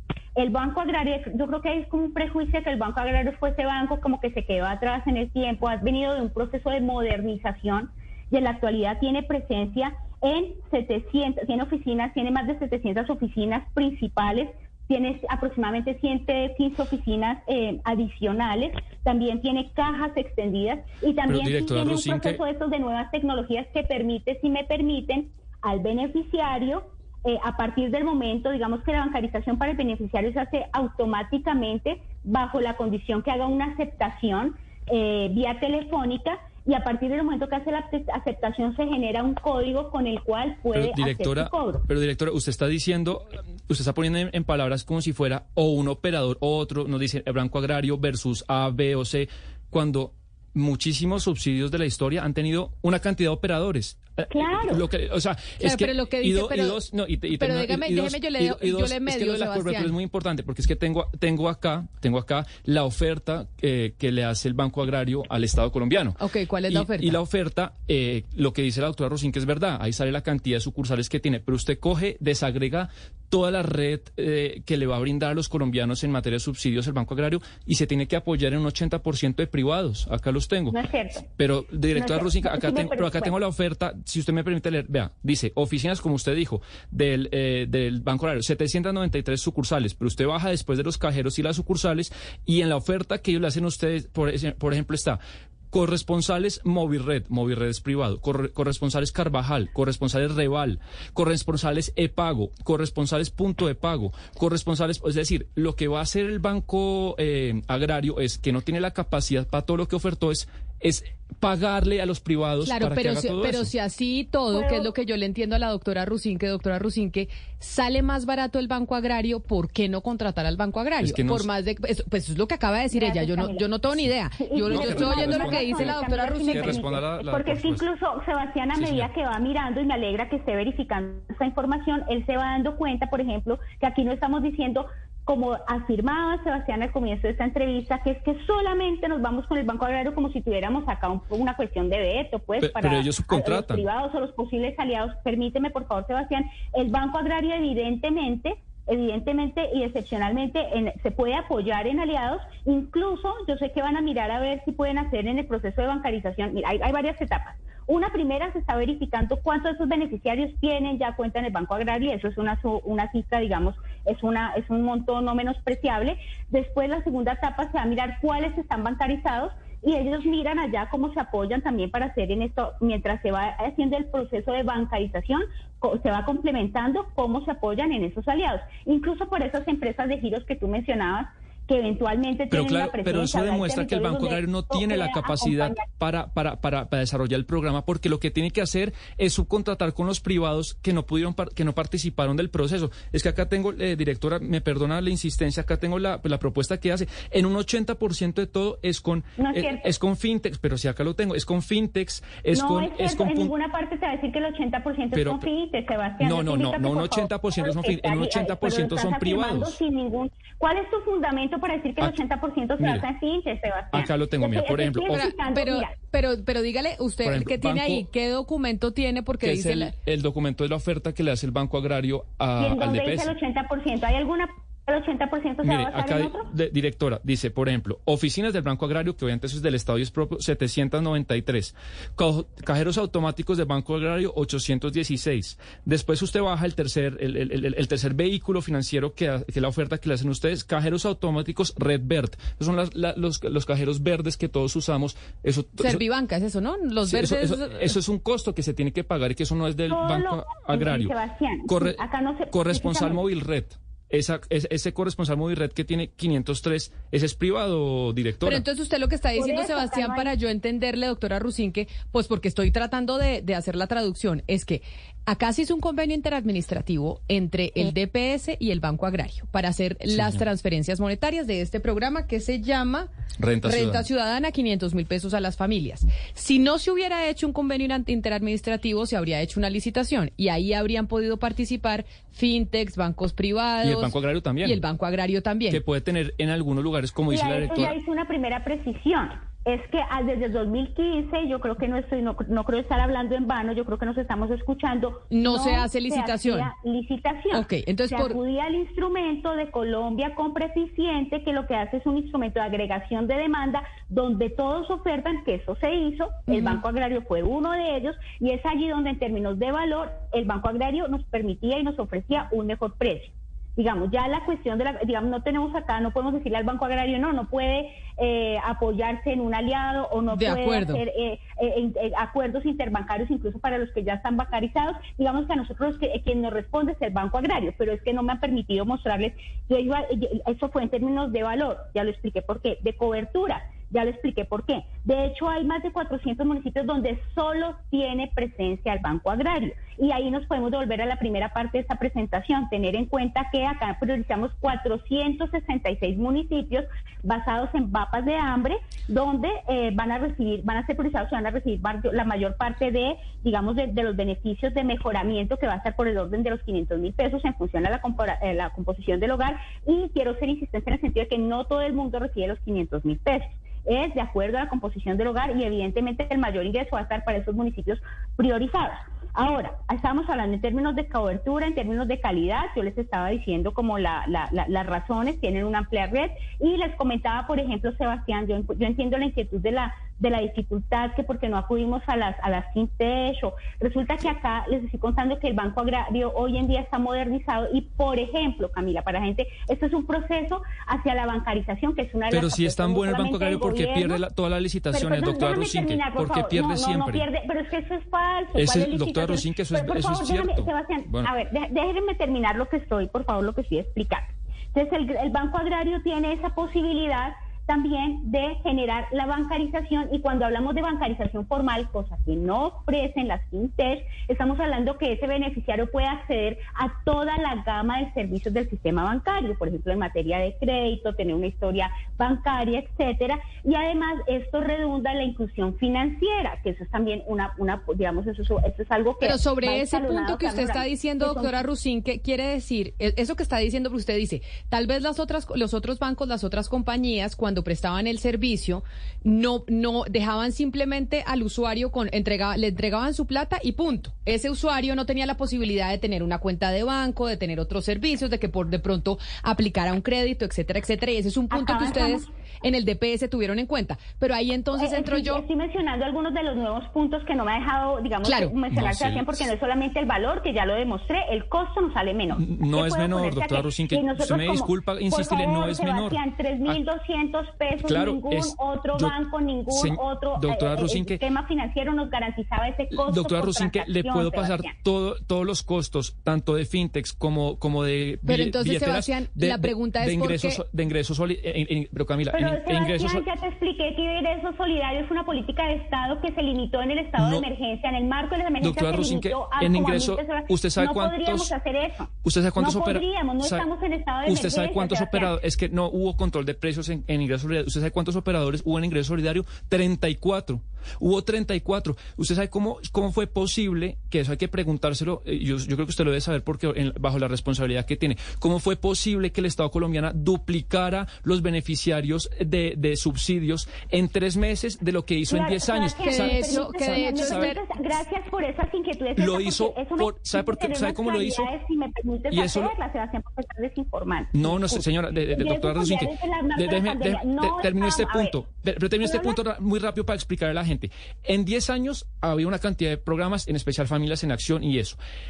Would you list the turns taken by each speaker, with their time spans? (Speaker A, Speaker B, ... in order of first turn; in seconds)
Speaker A: 0.3-41.9, 54.3-54.8, 80.7-81.3, 81.9-83.3, 114.5-114.9, 122.9-123.7, 124.4-185.8, 199.4-199.9, 202.5-215.9, 222.6-226.5, 249.9-253.2, 259.3-260.3, 287.3-394.2, 394.9-431.6, 451.5-452.3, 454.8-474.7, 482.3-495.4, 515.3-528.4, 529.0-529.4
Speaker B: 21.3-22.4, 40.7-66.2, 66.7-80.8, 81.4-95.2, 95.7-113.7, 121.0-121.5, 124.7-127.8, 128.8-129.1, 142.6-143.8, 182.5-203.5, 205.1-205.5, 206.2-209.8, 213.9-215.3, 217.2-218.0, 219.4-223.3, 225.6-246.0, 247.1-251.1, 251.7-258.6, 270.1-270.4, 273.4-274.0, 283.8-284.8, 285.7-287.9, 392.3-397.3, 398.5-401.3, 458.7-459.5, 462.3-466.8, 467.8-469.2, 469.7-471.2, 472.9-483.2, 487.2-487.4, 488.6-491.5, 492.2-493.6, 494.2-517.5, 519.2-521.5, 522.3-522.7, 524.3-535.0
Speaker C: 55.6-56.8, 57.3-59.9, 66.2-67.2, 112.6-126.9, 215.1-219.9, 245.8-247.9, 258.4-273.1, 273.6-285.8, 295.3-296.7, 297.5-298.4, 306.5-306.8, 320.3-321.0, 429.2-455.4, 458.2-458.5, 478.2-480.6, 516.0-517.6